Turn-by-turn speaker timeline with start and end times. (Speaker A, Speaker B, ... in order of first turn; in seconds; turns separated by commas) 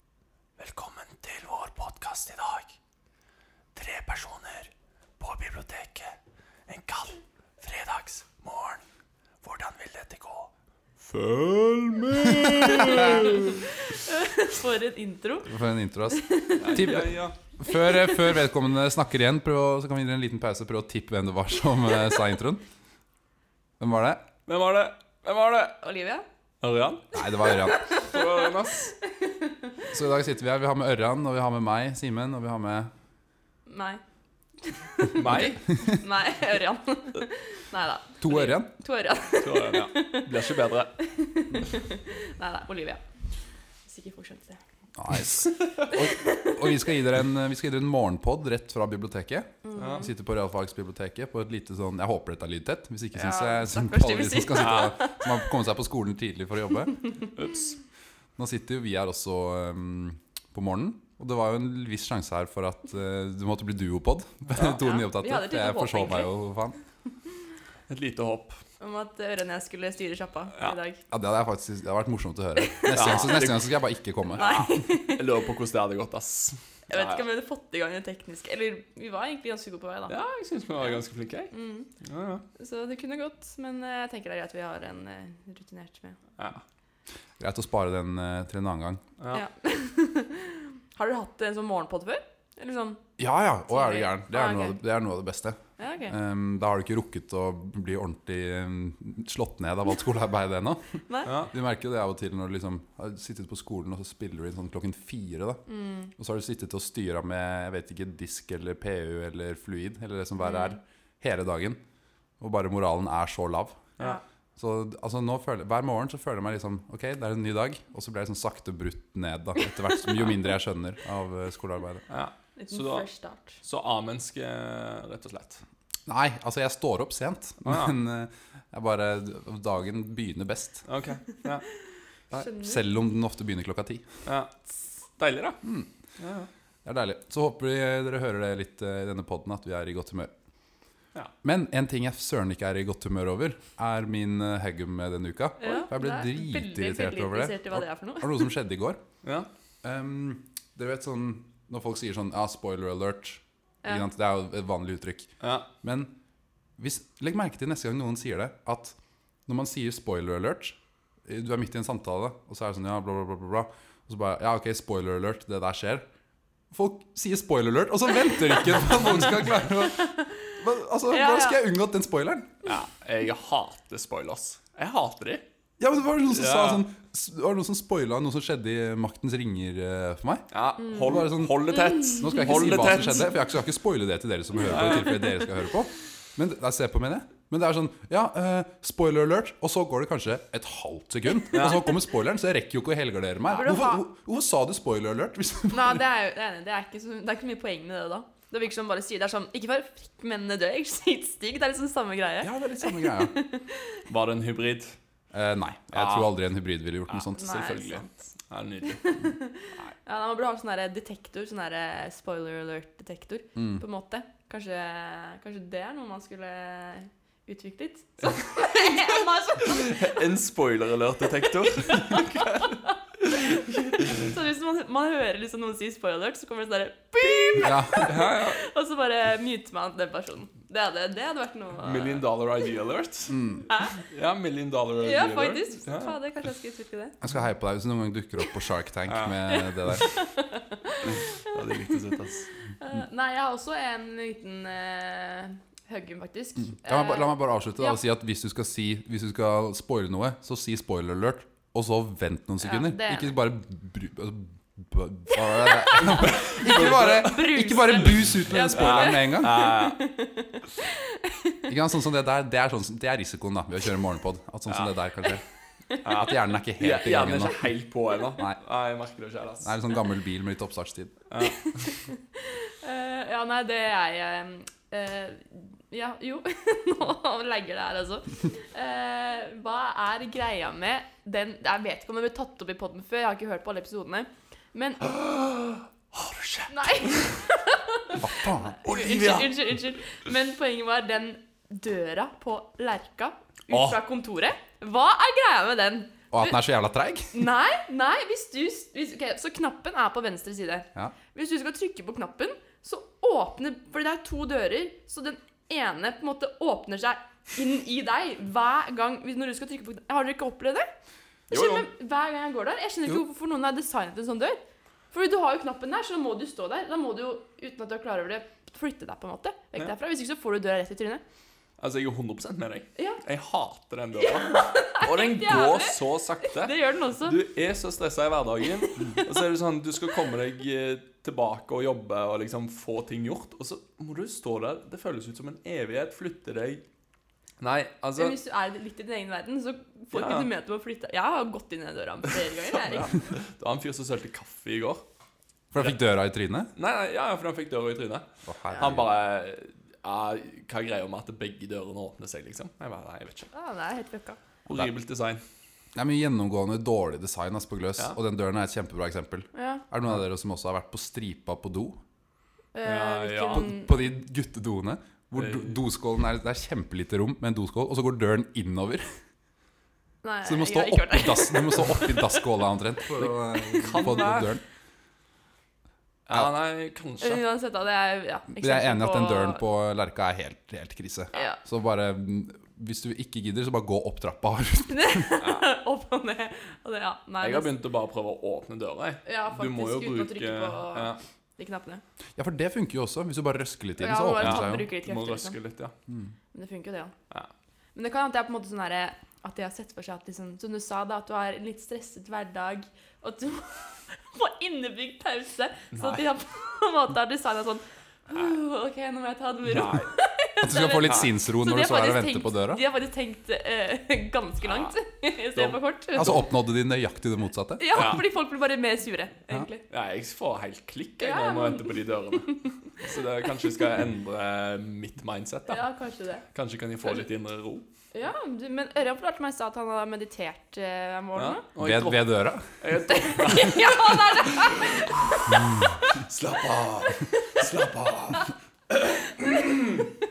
Speaker A: 0.6-2.7, Speaker A: 3.7-6.1, Speaker A: 6.7-8.8, Speaker A: 9.4-10.5, Speaker A: 11.0-13.6, Speaker B: 12.7-15.5, Speaker C: 15.4-22.6, Speaker B: 16.1-17.0, Speaker A: 16.6-17.3, Speaker B: 17.7-18.2, Speaker C: 23.8-24.2, Speaker A: 24.5-25.8, Speaker B: 25.8-26.2, Speaker A: 26.6-27.1, Speaker C: 27.1-27.8, Speaker B: 27.2-28.5, Speaker A: 27.9-28.9, Speaker B: 29.0-29.8, Speaker C: 29.9-32.9, Speaker B: 33.7-34.0, Speaker B: 34.6-40.5, Speaker A: 35.1-35.7, Speaker C: 38.2-38.7, Speaker A: 39.4-41.0, Speaker B: 41.0-43.0, Speaker B: 43.9-44.6, Speaker C: 45.0-57.1, Speaker B: 45.9-46.6, Speaker B: 49.6-50.1, Speaker A: 49.8-50.1, Speaker B: 53.1-55.4, Speaker A: 54.6-54.9, Speaker A: 57.4-57.8, Speaker C: 58.4-66.8, Speaker B: 64.6-66.3, Speaker A: 67.9-68.6, Speaker B: 68.8-71.0, Speaker C: 71.1-74.7, Speaker B: 72.6-73.4, Speaker A: 72.9-73.8, Speaker B: 74.3-75.4, Speaker A: 74.4-77.2, Speaker B: 76.9-80.1, Speaker A: 80.1-82.4, Speaker B: 81.5-81.9, Speaker B: 82.5-86.2, Speaker C: 87.4-89.0, Speaker B: 89.3-93.0, Speaker C: 93.2-105.6, Speaker B: 93.7-94.8, Speaker B: 95.8-96.2, Speaker B: 101.1-101.3, Speaker A: 101.2-101.5, Speaker B: 105.7-106.1, Speaker C: 106.2-111.8, Speaker B: 110.4-110.8, Speaker C: 112.4-113.9, Speaker C: 114.6-122.0, Speaker A: 122.1-123.1, Speaker B: 122.6-123.6, Speaker A: 123.6-125.6, Speaker C: 126.1-130.8, Speaker A: 127.6-127.9, Speaker A: 130.9-131.7, Speaker B: 132.3-132.8, Speaker C: 132.6-134.0, Speaker A: 134.2-135.6, Speaker C: 135.6-135.9, Speaker A: 136.2-136.5, Speaker C: 136.8-140.3, Speaker C: 141.4-149.0, Speaker B: 145.6-148.5, Speaker C: 149.8-155.3, Speaker A: 155.4-155.7, Speaker C: 155.8-156.1, Speaker C: 156.8-158.9, Speaker C: 159.5-166.1, Speaker C: 166.7-172.6, Speaker B: 170.0-170.6, Speaker B: 171.1-171.6, Speaker A: 172.6-175.4, Speaker C: 175.8-196.0, Speaker A: 176.3-176.9, Speaker A: 180.5-183.3, Speaker B: 181.8-182.5, Speaker A: 184.7-185.2, Speaker A: 191.5-191.9, Speaker B: 193.5-194.0, Speaker B: 195.7-204.0, Speaker C: 202.4-203.3, Speaker A: 204.1-205.0, Speaker C: 205.3-207.8, Speaker A: 205.9-206.3, Speaker A: 207.1-209.1, Speaker B: 207.3-208.3, Speaker B: 208.9-220.2, Speaker C: 213.6-213.8, Speaker A: 219.6-224.2, Speaker B: 221.9-232.2, Speaker C: 227.6-228.1, Speaker A: 227.9-228.6, Speaker A: 231.8-233.4, Speaker C: 233.3-233.6, Speaker B: 233.7-234.0, Speaker A: 233.9-236.1, Speaker B: 235.0-237.2, Speaker C: 237.2-240.1, Speaker A: 239.1-239.4, Speaker B: 239.5-242.1, Speaker A: 241.1-242.5, Speaker B: 242.8-248.0, Speaker C: 246.7-259.6, Speaker B: 252.6-253.3, Speaker B: 255.5-261.7, Speaker A: 256.0-257.5, Speaker A: 258.7-260.0, Speaker C: 261.7-265.4, Speaker A: 264.7-264.9, Speaker B: 265.9-266.1, Speaker A: 266.0-269.7, Speaker C: 266.1-267.7, Speaker C: 269.6-271.2, Speaker A: 271.3-271.8, Speaker B: 271.4-285.1, Speaker A: 285.0-287.3, Speaker B: 286.7-296.6, Speaker C: 288.2-288.8, Speaker A: 288.8-289.9, Speaker A: 293.7-294.0, Speaker C: 296.3-297.3, Speaker B: 297.3-310.9, Speaker A: 311.5-311.9, Speaker B: 311.5-314.6, Speaker B: 315.1-321.2, Speaker A: 321.8-336.8, Speaker B: 324.2-327.4, Speaker A: 337.6-338.4, Speaker B: 338.1-343.3, Speaker A: 340.1-340.5, Speaker A: 342.6-345.0, Speaker C: 345.7-346.7, Speaker A: 346.7-348.2, Speaker C: 348.4-349.1, Speaker A: 348.8-353.5, Speaker B: 353.5-354.4, Speaker A: 354.7-355.4, Speaker C: 355.9-362.0, Speaker B: 359.5-359.8, Speaker B: 362.7-363.9, Speaker A: 362.8-363.7, Speaker C: 363.5-369.2, Speaker A: 365.4-365.8, Speaker B: 370.2-372.4, Speaker C: 370.4-374.6, Speaker A: 373.2-374.6, Speaker A: 376.2-377.4, Speaker B: 377.2-379.6, Speaker C: 378.5-385.3, Speaker B: 381.3-381.6, Speaker B: 384.9-387.7, Speaker A: 387.4-391.2, Speaker B: 389.2-392.0, Speaker C: 392.4-394.9, Speaker B: 394.0-395.6, Speaker A: 394.4-395.9, Speaker B: 396.5-397.1, Speaker B: 397.9-416.4, Speaker A: 405.9-406.2, Speaker A: 409.7-410.1, Speaker C: 410.6-412.8, Speaker A: 411.0-411.3, Speaker A: 414.6-414.9, Speaker A: 415.5-416.5, Speaker C: 416.1-418.2, Speaker B: 417.8-419.8, Speaker A: 417.9-418.2, Speaker A: 419.9-425.8, Speaker B: 421.2-423.0, Speaker B: 423.6-423.8, Speaker B: 425.7-426.4, Speaker A: 426.5-427.8, Speaker B: 428.1-431.6, Speaker A: 431.4-434.7, Speaker C: 431.8-432.7, Speaker B: 433.0-436.1, Speaker A: 436.2-440.1